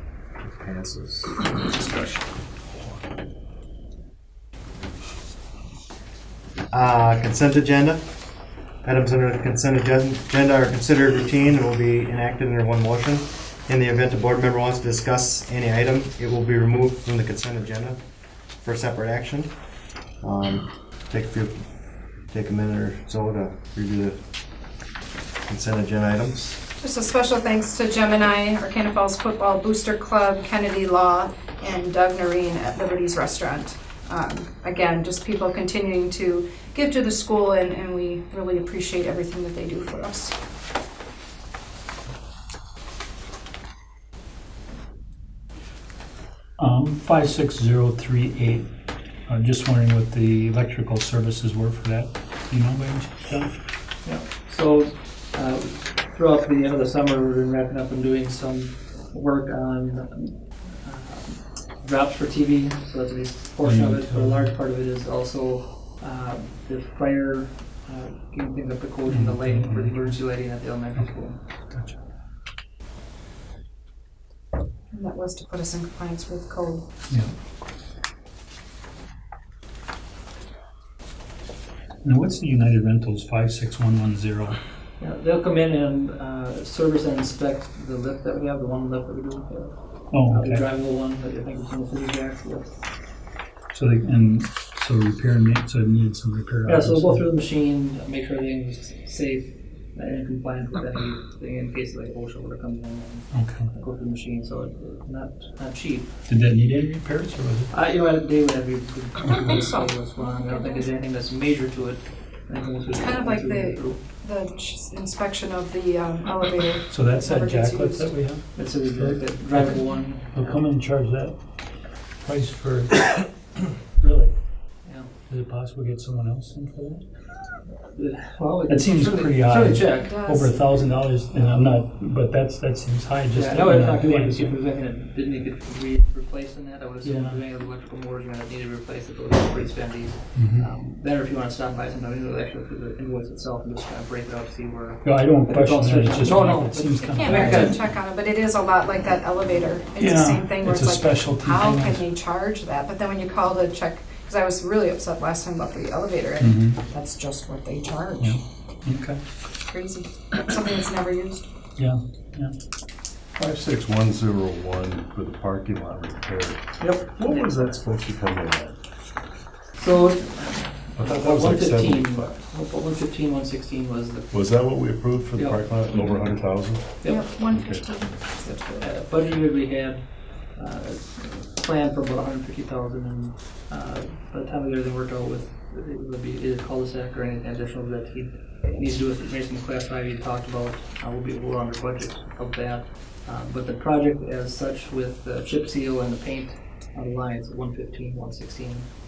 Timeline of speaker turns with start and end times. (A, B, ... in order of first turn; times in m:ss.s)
0:00.4-0:01.8 A
0:01.8-0:02.2 B
0:06.7-0:08.0 A
0:08.8-0:18.0 A
0:18.6-0:19.5 A
0:20.2-0:21.6 A
0:22.3-0:24.2 A
0:25.5-0:26.6 A
0:26.8-0:40.4 C
0:46.6-0:48.7 D
0:49.3-0:53.6 D
0:54.0-1:11.4 E
1:03.6-1:04.5 D
1:09.1-1:10.2 D
1:14.9-1:16.9 C
1:22.0-1:24.6 D
1:25.0-1:32.7 E
1:30.1-1:30.6 D
1:33.7-1:37.3 D
1:36.7-1:46.1 E
1:43.3-1:43.7 D
1:46.3-1:47.7 D
1:47.7-1:54.0 E
1:49.3-1:50.9 C
1:52.9-1:58.1 C
1:56.9-2:01.4 D
1:58.5-2:00.6 E
2:02.2-2:03.3 D
2:04.0-2:04.3 D
2:04.8-2:05.1 E
2:05.3-2:07.0 D
2:07.8-2:10.2 E
2:08.7-2:14.6 D
2:09.9-2:10.7 C
2:13.3-2:27.8 E
2:17.0-2:17.4 D
2:20.4-2:20.7 D
2:25.0-2:27.8 D
2:27.1-2:38.4 C
2:30.0-2:32.0 D
2:36.4-2:36.8 D
2:38.2-2:39.2 D
2:39.6-2:41.5 C
2:41.8-2:42.6 D
2:43.4-2:48.8 B
2:46.8-2:47.5 E
2:49.8-2:54.5 E
2:51.0-2:52.3 B
2:54.3-2:57.9 B
2:55.4-2:56.2 E
2:57.0-2:57.3 E
2:57.0-2:58.9 C
2:58.8-3:00.0 E
3:00.6-3:18.9 E